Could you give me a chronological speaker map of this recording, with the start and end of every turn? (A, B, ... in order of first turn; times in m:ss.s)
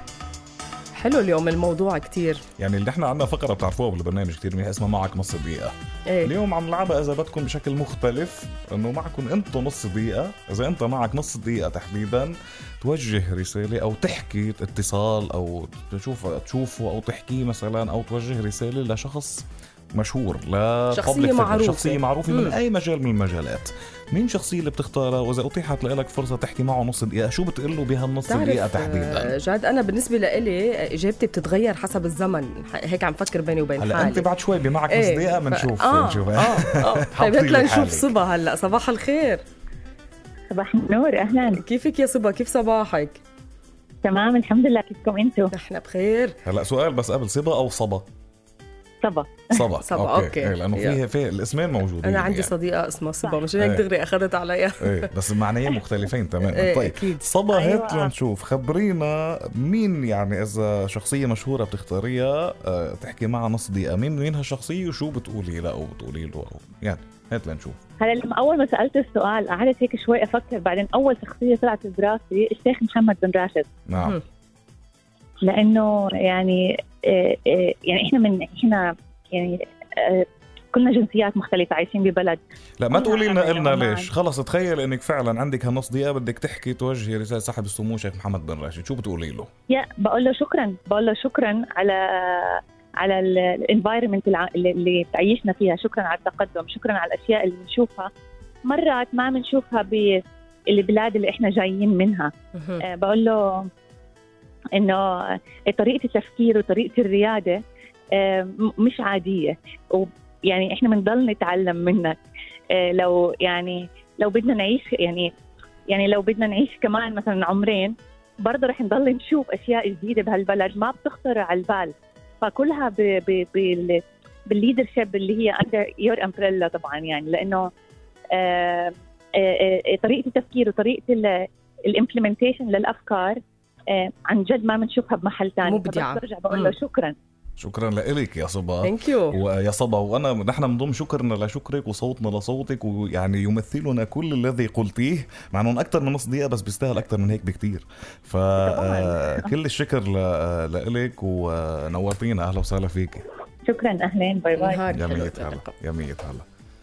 0:00.9-0:02.4 A
0:02.6-0:05.7 B
0:06.2-0:29.4 B
0:20.9-0:22.6 A
0:28.3-0:34.3 A
0:33.8-0:38.1 B
0:34.9-0:39.4 A
0:40.5-0:41.6 C
0:41.5-0:43.2 A
0:44.0-0:45.5 C
0:45.5-0:46.4 A
0:46.4-0:48.1 B
0:49.0-0:49.6 C
0:49.5-0:52.5 B
0:49.8-0:51.0 A
0:52.0-0:55.1 A
0:53.2-0:53.5 C
0:53.6-0:53.8 B
0:54.8-1:07.8 B
0:56.5-0:57.2 A
0:57.5-0:58.1 C
1:08.0-1:13.7 C
1:13.9-1:14.2 B
1:15.4-1:22.4 C
1:22.8-1:29.5 B
1:22.9-1:24.1 C
1:29.7-1:38.1 C
1:38.7-1:43.7 C
1:42.6-1:42.8 A
1:44.8-1:45.2 C
1:45.7-1:47.6 C
1:48.2-1:52.2 C
1:52.7-1:55.3 C
1:55.9-2:07.6 C
2:08.3-2:11.3 C
2:11.9-2:13.4 C
2:13.9-2:17.2 C
2:15.7-2:16.8 A
2:17.6-2:33.2 B
2:18.8-2:19.4 A
2:28.6-2:29.5 C
2:33.7-2:34.9 C
2:34.6-2:35.7 A
2:34.9-2:36.4 B